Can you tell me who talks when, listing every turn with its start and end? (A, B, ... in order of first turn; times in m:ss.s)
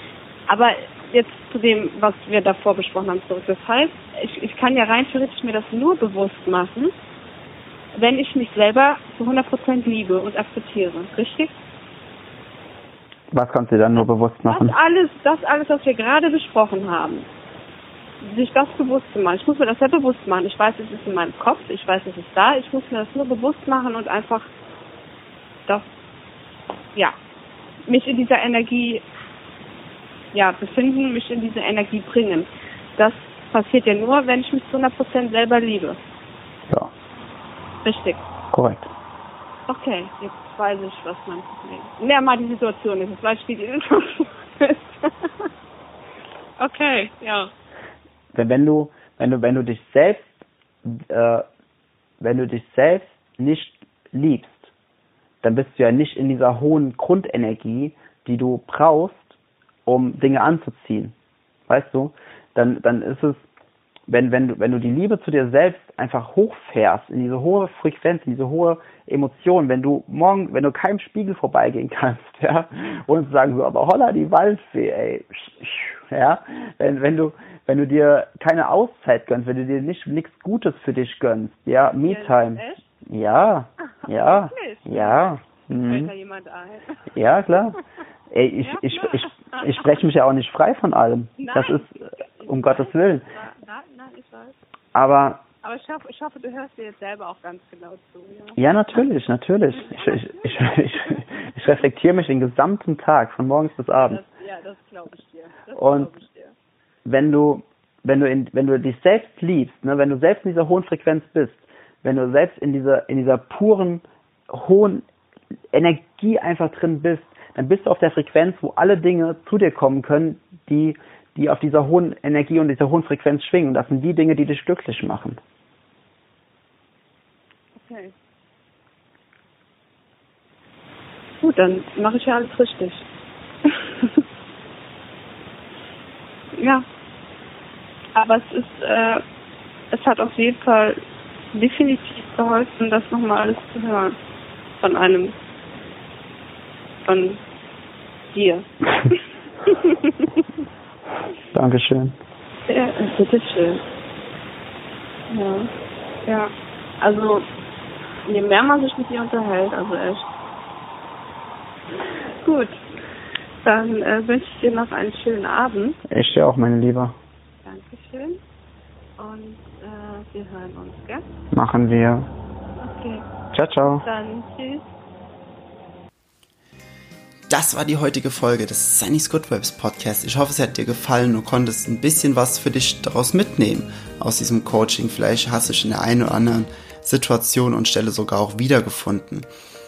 0:00.5-0:06.9 A
0:07.9-0:11.5 A
0:13.3-0:14.8 B
0:14.5-0:17.3 A
0:18.2-0:24.5 A
0:27.8-0:29.0 A
0:30.3-0:36.0 A
0:37.8-0:38.2 A
0:38.5-0:38.9 B
0:39.7-0:45.5 A
0:46.6-0:47.5 A
0:48.3-0:51.4 B
0:52.2-0:54.7 B
0:55.4-1:01.1 B
1:01.7-1:03.4 B
1:04.1-1:26.1 B
1:22.0-1:22.8 A
1:24.0-1:25.3 A
1:25.9-1:27.1 A
1:27.1-1:27.8 B
1:28.3-1:33.2 B
1:28.6-1:29.9 A
1:31.4-1:34.6 A
1:34.9-1:35.4 B
1:35.6-1:38.6 A
1:38.6-1:44.2 B
1:39.7-1:41.2 A
1:44.0-1:46.5 A
1:45.7-1:46.1 B
1:47.0-1:55.0 B
1:55.7-2:05.4 B
2:07.7-2:08.1 A
2:11.4-2:13.0 A
2:13.6-2:14.2 A
2:16.5-2:16.8 A
2:18.1-2:19.2 A
2:19.9-2:21.0 A
2:21.5-2:24.2 A
2:24.8-2:25.3 A
2:27.0-2:27.4 A
2:28.3-2:30.3 A
2:31.5-2:32.2 B
2:32.7-2:33.8 A
2:35.3-2:35.7 A
2:36.2-2:37.5 A
2:38.2-2:40.3 A
2:42.0-2:42.8 A
2:43.6-2:46.0 A
2:46.1-2:47.1 B
2:47.6-2:48.4 A
2:49.2-2:51.2 A
2:51.5-2:52.3 B
2:52.8-2:53.2 A
2:53.5-2:54.0 B
2:54.0-2:54.9 A
2:57.5-3:09.5 C